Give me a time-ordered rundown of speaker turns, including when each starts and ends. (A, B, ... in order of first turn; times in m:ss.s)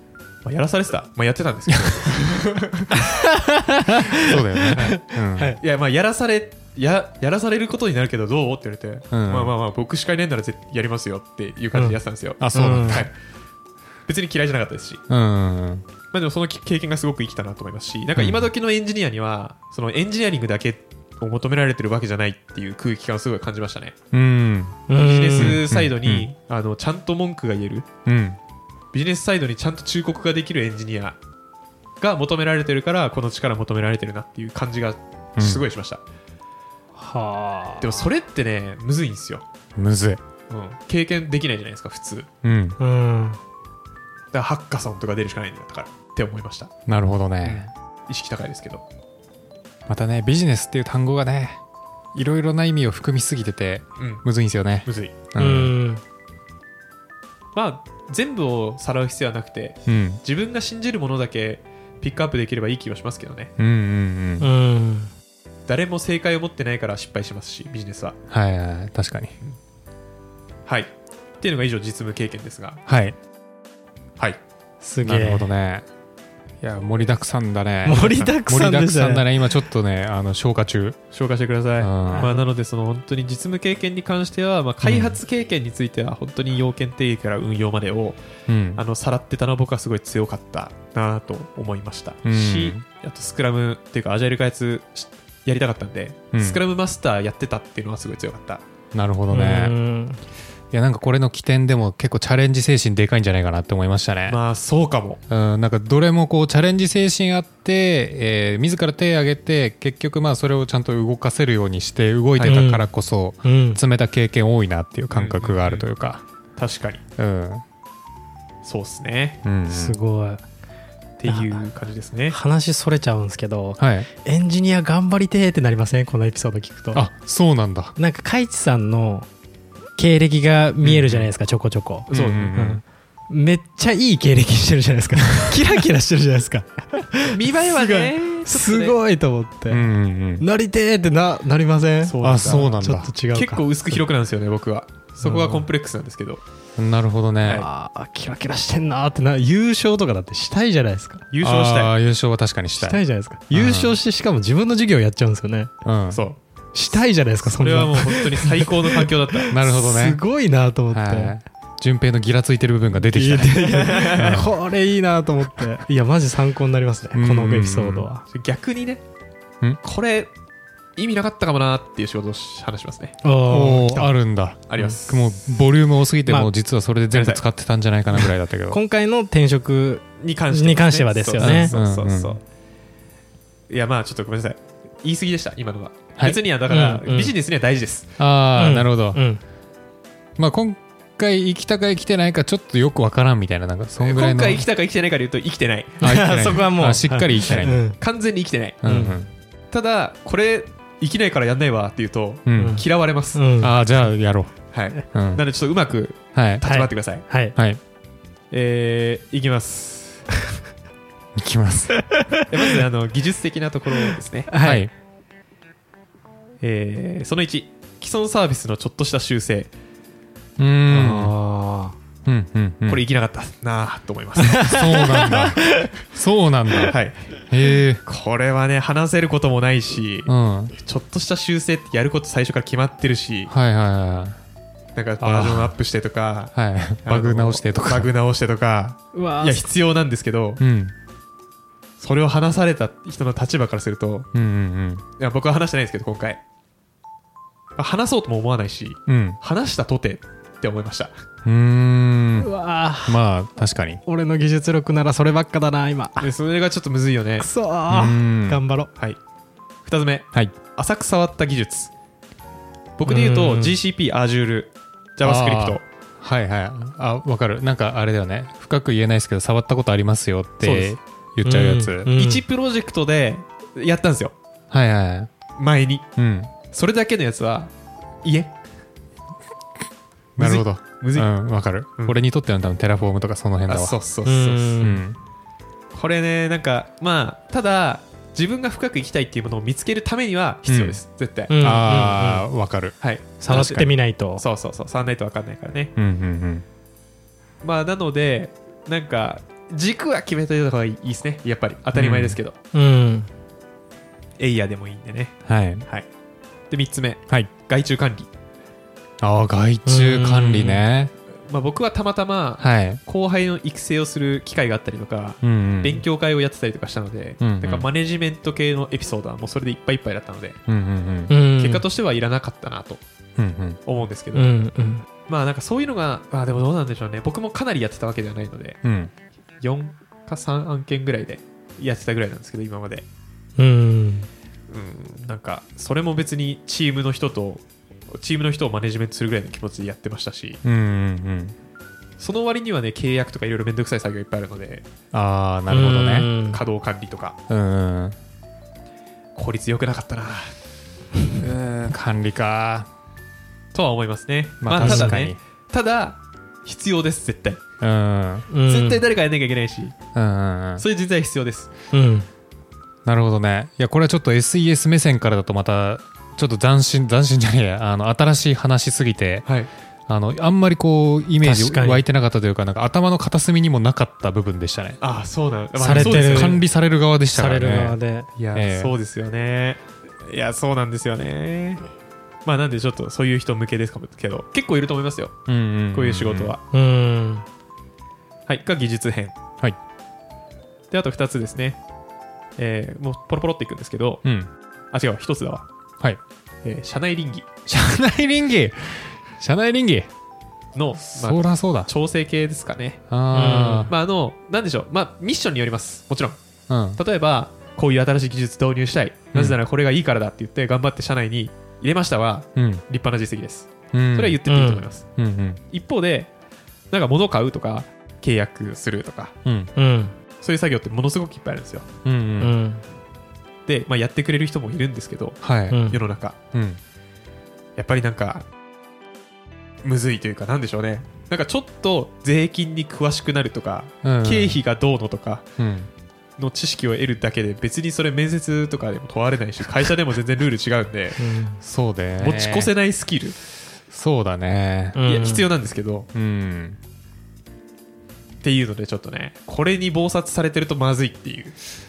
0:00.4-0:03.0 A
0:03.0-0:05.6 B
0:04.1-0:05.6 C
0:04.7-0:05.0 A
0:05.6-0:13.1 A
0:09.1-0:09.5 C
0:12.4-0:13.1 C
0:12.5-0:13.0 B
0:14.1-0:15.0 A
0:15.1-0:15.8 C
0:16.1-0:24.0 A
0:18.2-0:18.5 C
0:24.1-0:24.8 C
0:24.9-0:25.6 B
0:24.9-0:27.9 A
0:25.3-0:26.3 C
0:28.0-0:28.4 C
0:28.9-0:31.2 A
0:32.0-0:36.0 A
0:35.4-0:35.6 C
0:37.0-0:38.1 B
0:37.8-0:39.4 A
0:39.8-0:40.2 C
0:40.5-0:42.3 A
0:42.4-0:42.8 C
0:42.8-0:43.4 B
0:44.3-0:46.7 A
0:46.9-0:47.7 C
0:47.4-0:48.8 A
0:49.9-0:51.6 C
0:52.1-0:55.7 C
0:54.0-0:54.2 A
0:54.8-0:55.1 A
0:55.4-0:56.0 B
0:57.5-1:03.5 A
0:59.8-1:00.2 C
1:03.6-1:04.5 C
1:04.4-1:05.1 B
1:05.7-1:08.2 A
1:08.3-1:09.3 C
1:10.7-1:12.8 A
1:12.9-1:13.2 C
1:14.8-1:15.5 B
1:15.0-1:15.8 C
1:16.6-1:21.0 C
1:17.8-1:19.3 B
1:18.0-1:18.3 A
1:21.1-1:28.2 A
1:21.8-1:22.3 C
1:22.1-1:22.4 B
1:24.8-1:25.2 C
1:28.5-1:28.8 C
1:28.8-1:38.6 A
1:32.2-1:32.8 C
1:36.3-1:36.6 C
1:38.9-1:39.8 C
1:39.3-1:40.2 B
1:40.7-1:44.4 C
1:44.3-1:45.2 A
1:45.3-1:56.2 C
1:52.4-1:52.6 A
1:52.4-1:52.9 B
1:53.4-1:53.8 B
1:55.1-1:55.9 A
1:56.6-1:57.0 A
1:57.2-1:57.6 C
1:58.6-1:59.4 A
1:59.4-2:00.0 C
1:59.7-2:00.4 B
2:01.2-2:02.4 A
2:01.3-2:01.7 B
2:02.3-2:07.1 B
2:03.8-2:04.1 C
2:06.9-2:07.9 C
2:08.0-2:09.3 B
2:10.0-2:24.0 B
2:10.8-2:11.3 C
2:12.1-2:12.8 C
2:12.1-2:12.5 A
2:17.3-2:19.0 A
2:19.7-2:20.4 C
2:22.0-2:26.4 A
2:22.2-2:23.1 C
2:25.2-2:25.7 B
2:26.8-2:27.6 C
2:27.5-2:31.3 B
2:31.3-2:31.9 A
2:31.4-2:34.0 C
2:32.7-2:35.7 B
2:35.8-2:36.2 C
2:36.1-2:36.4 A
2:36.7-2:41.4 B
2:37.4-2:39.5 A
2:39.5-2:40.2 C
2:40.9-2:44.5 C
2:43.0-2:48.2 B
2:43.8-2:44.3 A
2:47.1-2:48.1 C
2:48.3-2:49.0 A
2:49.8-2:50.3 A
2:51.0-2:53.2 A
2:53.2-2:54.1 B
2:53.5-2:58.8 C
2:54.7-2:55.3 A
2:56.2-2:56.5 B
2:57.1-2:57.4 A
2:58.1-3:01.7 B
3:00.2-3:02.4 A
3:01.4-3:02.4 C
3:03.7-3:08.1 A
3:06.7-3:07.3 B
3:08.2-3:09.2 C
3:08.5-3:09.4 B
3:10.4-3:14.6 C
3:14.0-3:16.4 A
3:16.0-3:17.8 C
3:16.0-3:18.0 B
3:17.8-3:18.8 A
3:18.8-3:19.3 C
3:18.8-3:19.2 B
3:19.7-3:23.4 A
3:22.4-3:22.8 C
3:22.5-3:23.7 B
3:23.6-3:25.4 C
3:24.7-3:27.2 A
3:26.3-3:26.6 C
3:26.6-3:27.6 B
3:28.5-3:30.3 A
3:31.4-3:32.0 C
3:32.0-3:32.7 B
3:32.5-3:34.5 A
3:34.5-3:34.8 B
3:34.6-3:34.9 C
3:36.6-3:39.7 A
3:40.6-3:41.3 C
3:40.9-3:41.9 B
3:42.2-3:43.0 C
3:42.9-3:44.8 A
3:44.4-3:45.9 B
3:44.6-3:47.0 C
3:46.9-3:47.3 A
3:47.5-3:48.0 C
3:48.0-3:53.5 A
3:50.3-3:50.7 C
3:53.5-3:54.4 C
3:54.9-4:00.6 A
3:55.2-3:55.8 C
3:56.5-3:58.1 C
3:59.1-3:59.7 B
4:00.6-4:00.9 C
4:02.0-4:04.3 A
4:04.3-4:05.0 C
4:05.2-4:06.4 A
4:07.8-4:11.1 A
4:09.1-4:09.4 C
4:11.4-4:12.5 C
4:12.4-4:13.2 B
4:13.0-4:14.0 C
4:14.0-4:16.3 B
4:16.2-4:17.5 A
4:17.4-4:18.9 B
4:17.9-4:18.6 C
4:19.8-4:21.9 A
4:23.0-4:25.8 A
4:23.0-4:23.8 B
4:25.2-4:32.1 C
4:30.6-4:31.0 A
4:31.4-4:32.4 B
4:32.1-4:34.3 A
4:34.7-4:35.3 C
4:35.6-4:36.0 A
4:36.2-4:36.5 C
4:36.7-4:37.7 A
4:38.2-4:38.5 A
4:40.4-4:44.0 C
4:40.4-4:41.3 A
4:43.7-4:44.9 A
4:44.2-4:45.0 B
4:44.8-4:45.2 C
4:45.9-4:51.5 A
4:50.6-4:51.0 C
4:51.5-4:52.5 B
4:51.6-4:53.0 C
4:53.0-4:55.9 A
4:53.4-4:54.4 B
4:53.5-4:53.8 C
4:56.0-4:56.6 C
4:57.6-5:02.5 A
5:01.9-5:02.4 C
5:02.7-5:03.3 B
5:04.4-5:06.1 A
5:05.4-5:05.8 C
5:06.7-5:08.3 A
5:09.2-5:11.1 C
5:09.8-5:10.8 B
5:11.5-5:20.6 A
5:12.6-5:13.0 C
5:15.4-5:16.0 C
5:17.4-5:17.9 C
5:20.7-5:21.3 C
5:21.3-5:21.8 B
5:21.6-5:23.0 A
5:23.4-5:23.8 C
5:23.8-5:24.6 A
5:24.3-5:25.0 B
5:25.3-5:28.8 A
5:28.8-5:29.1 C
5:29.6-5:33.0 A
5:33.6-5:34.3 B
5:34.7-5:40.6 A
5:40.6-5:41.5 C
5:42.2-5:44.8 A
5:45.1-5:46.3 C
5:45.7-5:46.6 B
5:46.5-5:47.4 A
5:47.5-5:48.2 C
5:49.3-5:50.5 A
5:51.4-5:52.9 C
5:53.7-5:57.6 A
5:54.6-5:55.4 C
5:54.8-5:55.2 B
5:57.8-5:58.5 C
5:58.5-5:59.0 B
5:58.6-5:59.9 A
6:00.1-6:00.8 C
6:00.8-6:01.7 A
6:01.9-6:02.3 B
6:03.0-6:09.4 C
6:09.4-6:09.7 A
6:10.1-6:15.0 C
6:11.4-6:12.0 B
6:15.0-6:16.6 A
6:15.8-6:16.6 B
6:15.9-6:18.0 C
6:17.3-6:18.3 B
6:18.4-6:21.8 A
6:18.5-6:18.9 C
6:22.4-6:25.3 A
6:25.5-6:26.5 C
6:25.9-6:26.6 A
6:26.7-6:27.4 B
6:28.5-6:29.3 A
6:30.9-6:31.8 A
6:32.6-6:34.2 A
6:34.2-6:34.5 C
6:34.9-6:35.7 A
6:36.6-6:37.5 A
6:37.7-6:40.1 C
6:40.7-6:43.0 A
6:41.0-6:41.9 C
6:43.1-6:43.9 C
6:43.3-6:43.9 B
6:43.9-6:46.4 A
6:46.7-6:47.0 C
6:46.9-6:55.0 A
6:52.6-6:52.8 C
6:53.9-6:54.4 C
6:54.5-6:54.9 B
6:55.2-6:55.6 C
6:55.7-6:56.3 A
6:56.9-6:59.3 A
6:59.4-6:59.7 C
6:59.8-7:00.1 B
7:00.4-7:01.9 A
7:02.0-7:02.5 C
7:02.4-7:02.8 B
7:03.6-7:06.4 A
7:05.4-7:05.9 C
7:05.7-7:06.0 B
7:06.5-7:06.8 C
7:07.8-7:08.5 A
7:09.8-7:15.4 A
7:14.0-7:14.6 C
7:15.6-7:15.9 C
7:16.4-7:21.2 A
7:21.2-7:21.6 B
7:21.6-7:22.7 C
7:22.2-7:23.4 A
7:23.9-7:25.0 C
7:25.0-7:25.5 B
7:25.0-7:26.1 A
7:26.1-7:26.8 C
7:28.4-7:31.6 A